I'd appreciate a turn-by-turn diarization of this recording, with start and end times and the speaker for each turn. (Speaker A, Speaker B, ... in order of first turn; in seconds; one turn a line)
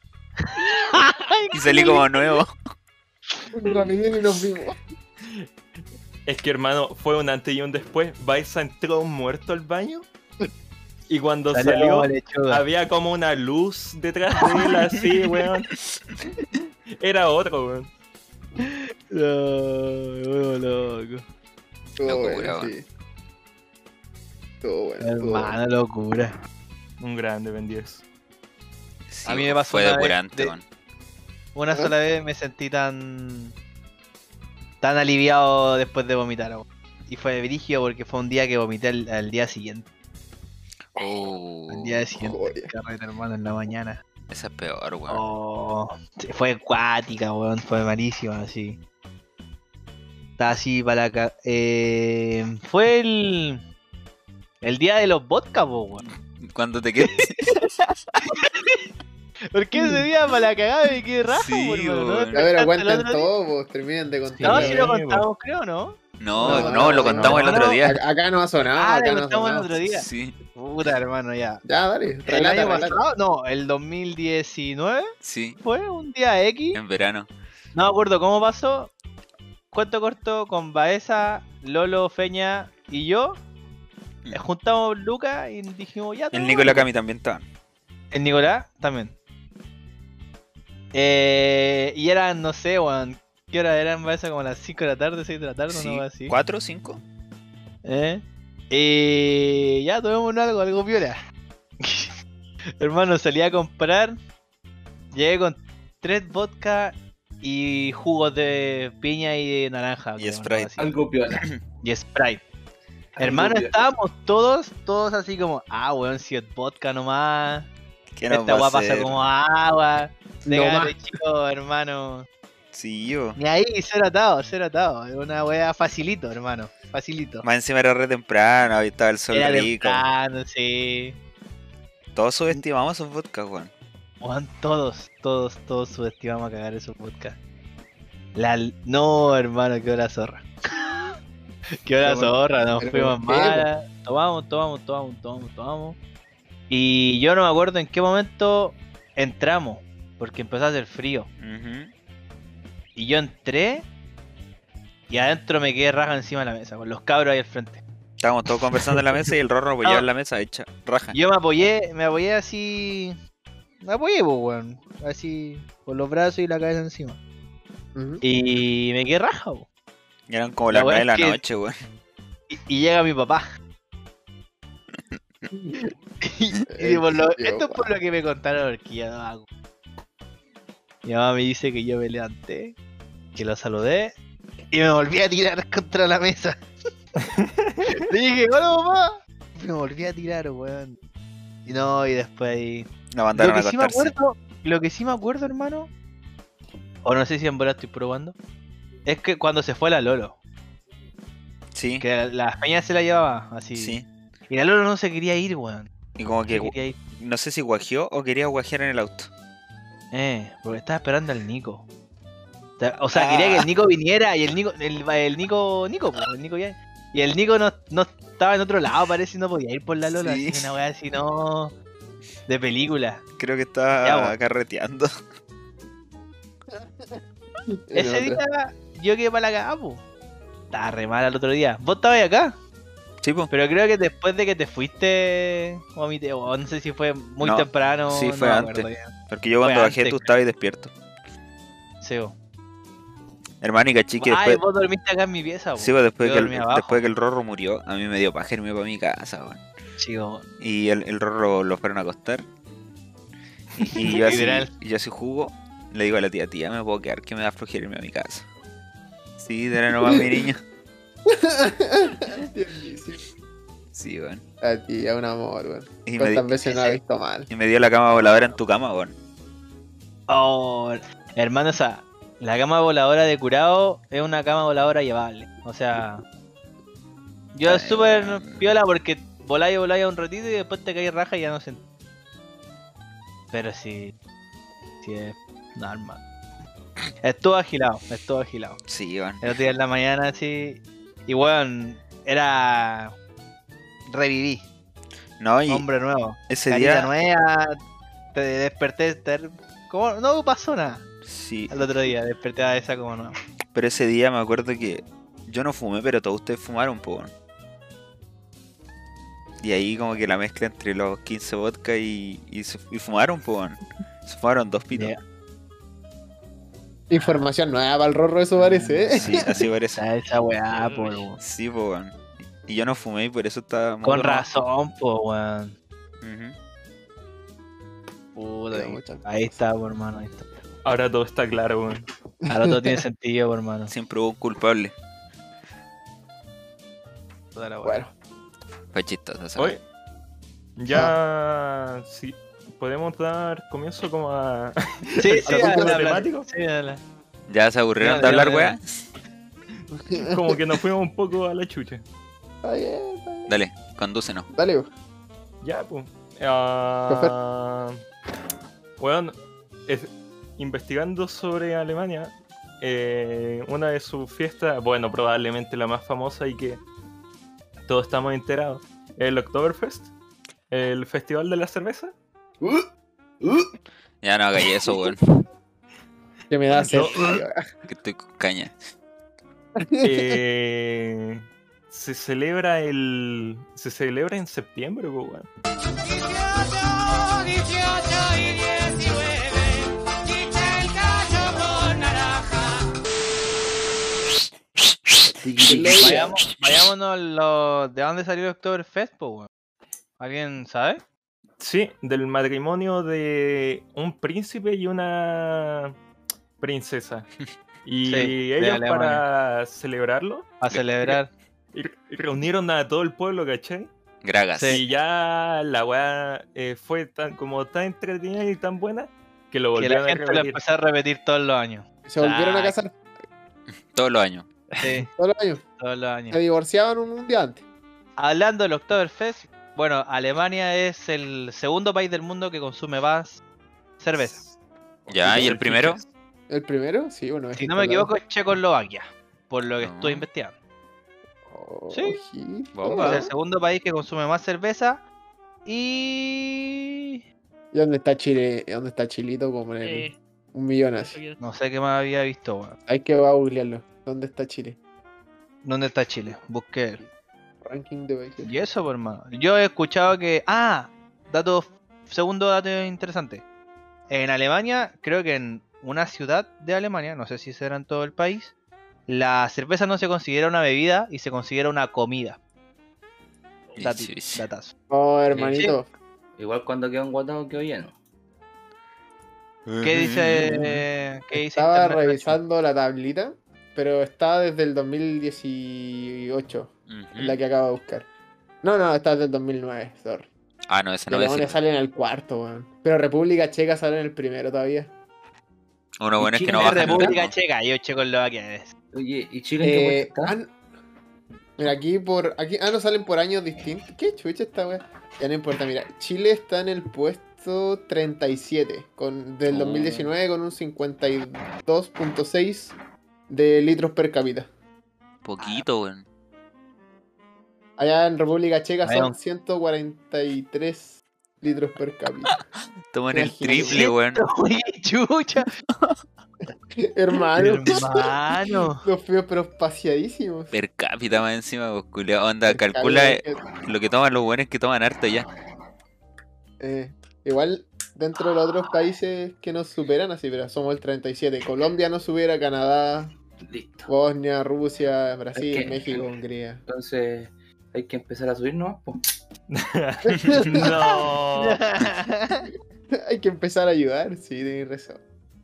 Speaker A: 0.5-2.0
Speaker B: 0.6-2.0
Speaker C: 1.5-2.5
Speaker D: 3.5-4.8
Speaker E: 6.2-10.1
Speaker E: 11.1-15.8
Speaker A: 11.5-12.6
Speaker E: 17.0-17.9
Speaker A: 18.6-21.2
Speaker D: 22.0-22.9
Speaker C: 22.0-22.7
Speaker D: 24.6-25.6
Speaker A: 25.0-26.3
Speaker E: 27.0-28.0
Speaker C: 29.1-30.6
Speaker A: 29.2-30.5
Speaker A: 31.5-33.5
Speaker A: 34.8-39.9
Speaker C: 41.0-42.1
Speaker A: 41.7-44.0
Speaker D: 42.2-42.7
Speaker C: 44.3-45.2
Speaker A: 45.1-48.8
Speaker A: 50.4-53.6
Speaker A: 54.6-56.0
Speaker C: 56.0-57.7
Speaker A: 58.2-58.8
Speaker A: 59.5-63.3
Speaker C: 61.3-62.5
Speaker D: 62.3-64.9
Speaker E: 64.3-65.2
Speaker A: 64.4-67.8
Speaker C: 66.2-68.0
Speaker D: 66.4-69.7
Speaker E: 67.0-67.5
Speaker A: 68.8-71.6
Speaker C: 69.9-70.3
Speaker D: 71.7-73.0
Speaker A: 72.3-75.1
Speaker C: 75.2-75.6
Speaker A: 75.6-76.8
Speaker C: 76.7-77.3
Speaker A: 77.7-78.9
Speaker A: 79.7-83.4
Speaker A: 84.3-86.9
Speaker C: 86.3-87.4
Speaker A: 88.1-89.1
Speaker A: 90.9-96.3
Speaker C: 95.7-97.0
Speaker A: 97.8-101.2
Speaker A: 101.8-102.1
Speaker A: 102.8-104.2
Speaker A: 105.1-110.9
Speaker C: 110.2-110.7
Speaker F: 110.8-111.5
Speaker A: 111.8-112.4
Speaker A: 113.2-117.7
Speaker F: 113.2-113.8
Speaker C: 118.1-119.2
Speaker A: 118.3-122.3
Speaker D: 120.5-121.0
Speaker C: 122.7-123.4
Speaker A: 123.4-127.5
Speaker C: 127.4-130.1
Speaker A: 129.3-131.2
Speaker C: 132.1-133.7
Speaker A: 134.2-137.4
Speaker A: 138.3-141.2
Speaker A: 141.8-146.0
Speaker D: 142.0-143.7
Speaker A: 146.7-151.3
Speaker C: 151.4-151.9
Speaker A: 152.9-153.8
Speaker A: 155.1-157.8
Speaker C: 158.2-161.2
Speaker A: 158.7-159.0
Speaker A: 161.1-163.2
Speaker A: 163.8-167.2
Speaker D: 167.9-168.2
Speaker A: 168.2-169.7
Speaker C: 170.3-171.7
Speaker A: 170.7-171.4
Speaker A: 172.5-173.4
Speaker A: 176.2-179.4
Speaker D: 176.7-177.9
Speaker A: 181.0-182.8
Speaker A: 183.3-184.1
Speaker A: 184.7-186.6
Speaker E: 187.3-187.8
Speaker A: 187.8-191.0
Speaker A: 191.7-195.9
Speaker C: 193.1-194.1
Speaker A: 197.0-198.3
Speaker A: 199.0-200.3
Speaker C: 201.7-202.0
Speaker A: 202.0-204.0
Speaker C: 203.7-204.1
Speaker A: 204.5-205.9
Speaker C: 206.2-209.3
Speaker A: 206.5-207.0
Speaker A: 210.1-211.8
Speaker A: 212.8-221.7
Speaker C: 213.1-213.7
Speaker C: 220.1-220.7
Speaker A: 222.5-223.2
Speaker C: 223.4-225.1
Speaker A: 224.0-224.3
Speaker D: 226.7-227.2
Speaker D: 227.7-228.4
Speaker A: 227.9-230.0
Speaker A: 230.7-232.5
Speaker C: 233.2-233.5
Speaker A: 233.5-240.2
Speaker C: 237.4-240.9
Speaker A: 242.0-242.3
Speaker C: 243.6-244.6
Speaker A: 244.2-247.0
Speaker C: 245.8-249.6
Speaker A: 250.0-250.4
Speaker C: 250.6-252.4
Speaker C: 253.8-258.4
Speaker A: 253.8-254.7
Speaker C: 259.4-260.6
Speaker D: 260.0-260.4
Speaker D: 261.3-263.2
Speaker C: 263.9-264.4
Speaker D: 264.6-267.5
Speaker C: 266.1-266.6
Speaker A: 266.6-267.0
Speaker C: 267.5-269.1
Speaker A: 270.3-276.2
Speaker A: 277.5-281.8
Speaker C: 277.6-278.7
Speaker A: 283.5-284.1
Speaker A: 285.0-286.2
Speaker A: 287.2-288.8
Speaker C: 288.9-289.5
Speaker A: 289.4-293.1
Speaker A: 294.1-294.6
Speaker C: 295.4-295.9
Speaker A: 295.7-297.8
Speaker C: 296.5-297.1
Speaker A: 298.3-301.0
Speaker C: 301.2-301.9
Speaker A: 301.7-303.4
Speaker C: 303.7-307.3
Speaker C: 309.6-315.1
Speaker A: 314.9-315.2
Speaker D: 317.1-319.6
Speaker A: 318.6-321.4
Speaker C: 319.1-320.0
Speaker C: 320.9-324.4
Speaker A: 324.0-325.8
Speaker C: 326.2-326.6
Speaker A: 328.3-330.4
Speaker D: 328.7-329.3
Speaker E: 330.8-332.1
Speaker A: 332.5-333.9
Speaker C: 333.9-334.9
Speaker A: 337.5-338.0
Speaker D: 337.8-338.1
Speaker C: 338.9-339.8
Speaker E: 339.6-339.8
Speaker E: 340.8-346.5
Speaker A: 345.2-347.0
Speaker D: 345.5-346.2
Speaker C: 347.5-348.8
Speaker A: 348.0-348.7
Speaker D: 350.0-350.6
Speaker E: 350.1-352.0
Speaker D: 352.6-353.5
Speaker C: 353.5-354.5
Speaker D: 354.5-354.9
Speaker E: 355.6-358.0
Speaker D: 357.1-357.3
Speaker E: 359.0-366.8
Speaker E: 367.9-370.1
Speaker E: 370.7-372.1
Speaker C: 374.2-375.2
Speaker D: 376.5-377.6
Speaker E: 376.7-377.4
Speaker C: 377.9-378.8
Speaker D: 379.8-380.4
Speaker E: 380.0-385.5
Speaker F: 395.4-396.3
Speaker D: 395.6-396.3
Speaker A: 396.0-399.5
Speaker A: 400.2-401.0
Speaker E: 401.6-405.9
Speaker E: 406.6-407.3
Speaker E: 407.8-411.1
Speaker A: 408.0-409.2
Speaker A: 410.6-411.3
Speaker E: 411.7-413.9
Speaker C: 414.2-414.8
Speaker A: 414.6-414.8
Speaker E: 414.7-420.6
Speaker A: 419.8-422.8
Speaker D: 422.1-422.9
Speaker C: 423.9-424.5
Speaker A: 424.7-425.1
Speaker D: 425.1-425.6
Speaker A: 425.8-426.4
Speaker D: 426.3-427.6
Speaker A: 428.2-433.4
Speaker A: 434.0-434.4
Speaker C: 435.1-436.0
Speaker D: 435.2-435.5
Speaker E: 435.3-436.0
Speaker D: 436.5-438.1
Speaker A: 437.6-440.5
Speaker C: 439.8-440.3
Speaker D: 441.5-443.3
Speaker A: 441.9-442.2
Speaker C: 442.7-443.3
Speaker A: 442.9-445.0
Speaker A: 445.6-447.2
Speaker D: 447.7-451.2
Speaker B: 449.8-450.2
Speaker B: 451.0-451.4
Speaker A: 451.4-452.8
Speaker D: 452.9-454.8
Speaker A: 455.6-457.0
Speaker D: 457.6-458.5
Speaker A: 458.4-463.4
Speaker A: 464.1-468.5
Speaker A: 469.1-472.4
Speaker C: 473.7-474.4
Speaker A: 473.8-474.7
Speaker D: 474.9-475.9
Speaker A: 475.4-475.7
Speaker F: 476.4-478.0
Speaker C: 479.6-480.8
Speaker A: 479.8-482.4
Speaker D: 481.3-488.1
Speaker C: 486.9-487.4
Speaker D: 488.6-490.3
Speaker C: 490.7-491.6
Speaker D: 491.1-494.9
Speaker C: 496.0-497.3
Speaker F: 496.2-497.2
Speaker A: 496.4-498.7
Speaker F: 498.9-500.4
Speaker D: 499.6-500.5
Speaker D: 501.6-512.7
Speaker D: 513.3-514.5
Speaker C: 515.2-516.0
Speaker D: 517.8-522.4
Speaker A: 518.8-519.1
Speaker C: 522.9-524.2
Speaker D: 523.1-523.8
Speaker A: 523.5-525.5
Speaker D: 526.8-527.8
Speaker A: 527.4-528.8
Speaker D: 528.8-530.5
Speaker C: 530.5-535.3
Speaker D: 532.5-533.4
Speaker D: 536.6-543.1
Speaker F: 543.5-543.9
Speaker D: 543.9-546.6
Speaker F: 545.3-546.1
Speaker F: 546.7-549.0
Speaker E: 549.5-551.6
Speaker D: 550.1-551.0
Speaker A: 551.4-552.5
Speaker D: 552.9-555.0